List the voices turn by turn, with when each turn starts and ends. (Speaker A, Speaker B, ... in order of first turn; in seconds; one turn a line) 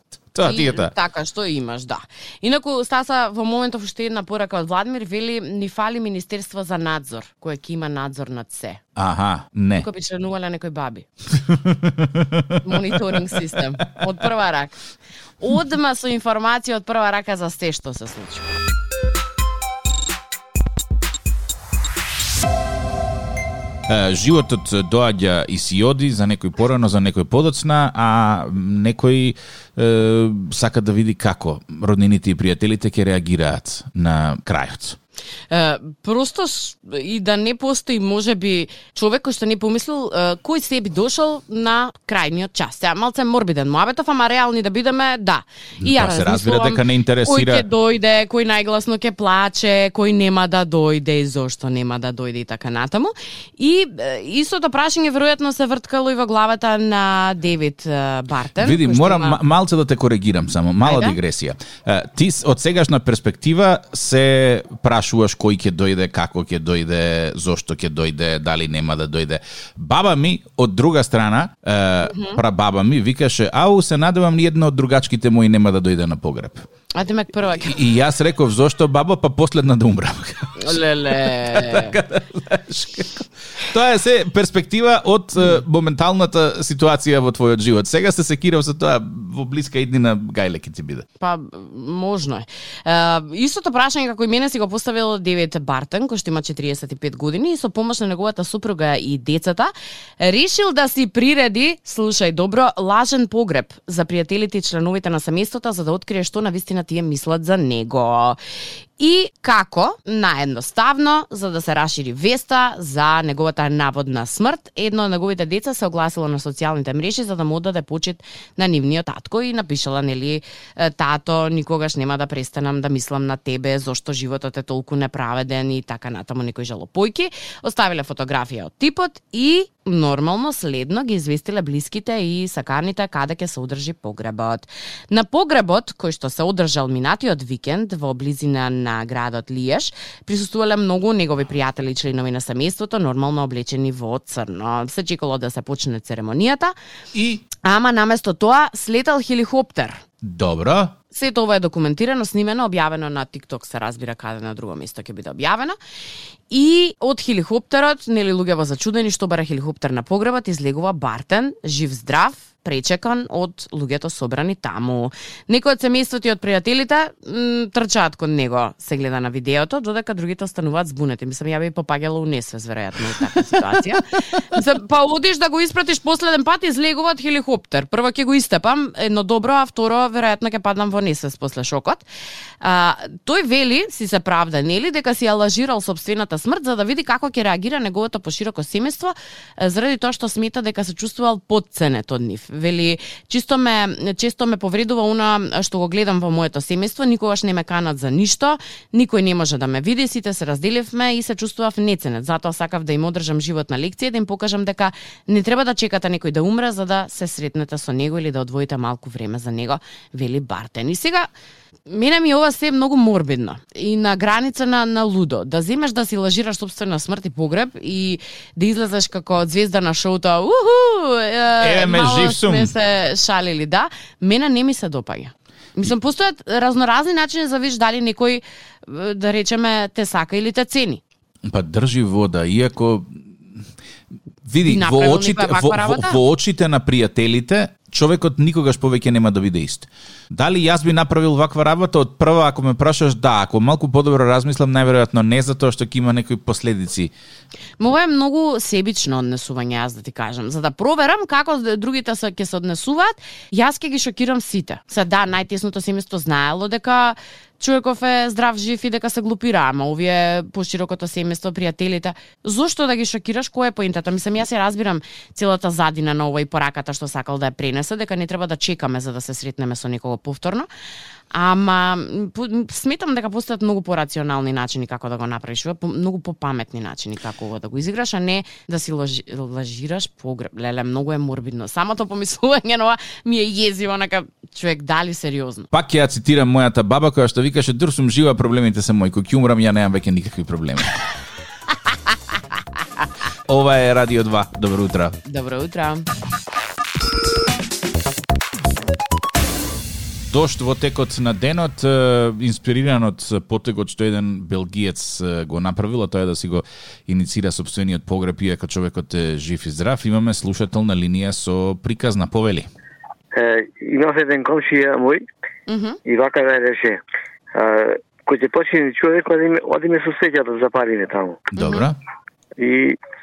Speaker A: 0.3-0.9
Speaker B: 0.4-8.8
Speaker A: 9.0-9.9
Speaker B: 9.8-11.1
Speaker A: 11.4-13.4
Speaker B: 12.6-14.8
Speaker B: 15.4-18.5
Speaker A: 23.9-35.0
Speaker B: 35.5-59.4
Speaker A: 45.8-47.7
Speaker A: 58.6-76.7
Speaker B: 60.8-61.2
Speaker B: 72.0-72.4
Speaker B: 76.9-77.8
Speaker A: 77.6-91.1
Speaker B: 80.6-82.0
Speaker B: 91.2-108.4
Speaker B: 109.0-146.7
Speaker A: 147.1-147.4
Speaker B: 147.6-150.0
Speaker A: 150.2-150.9
Speaker B: 151.1-155.8
Speaker B: 156.5-182.1
Speaker B: 182.6-211.3
Speaker B: 211.9-231.0
Speaker A: 221.6-222.7
Speaker A: 231.4-233.6
Speaker A: 234.4-247.1
Speaker B: 234.7-236.2
Speaker B: 247.8-270.7
Speaker B: 271.3-285.7
Speaker A: 285.7-291.0
Speaker A: 293.5-295.2
Speaker B: 295.2-296.1
Speaker A: 300.3-312.7
Speaker C: 313.3-315.2
Speaker B: 315.7-316.0
Speaker C: 316.1-317.0
Speaker C: 317.5-321.4
Speaker A: 321.5-322.0
Speaker B: 321.6-321.9
Speaker C: 322.6-323.0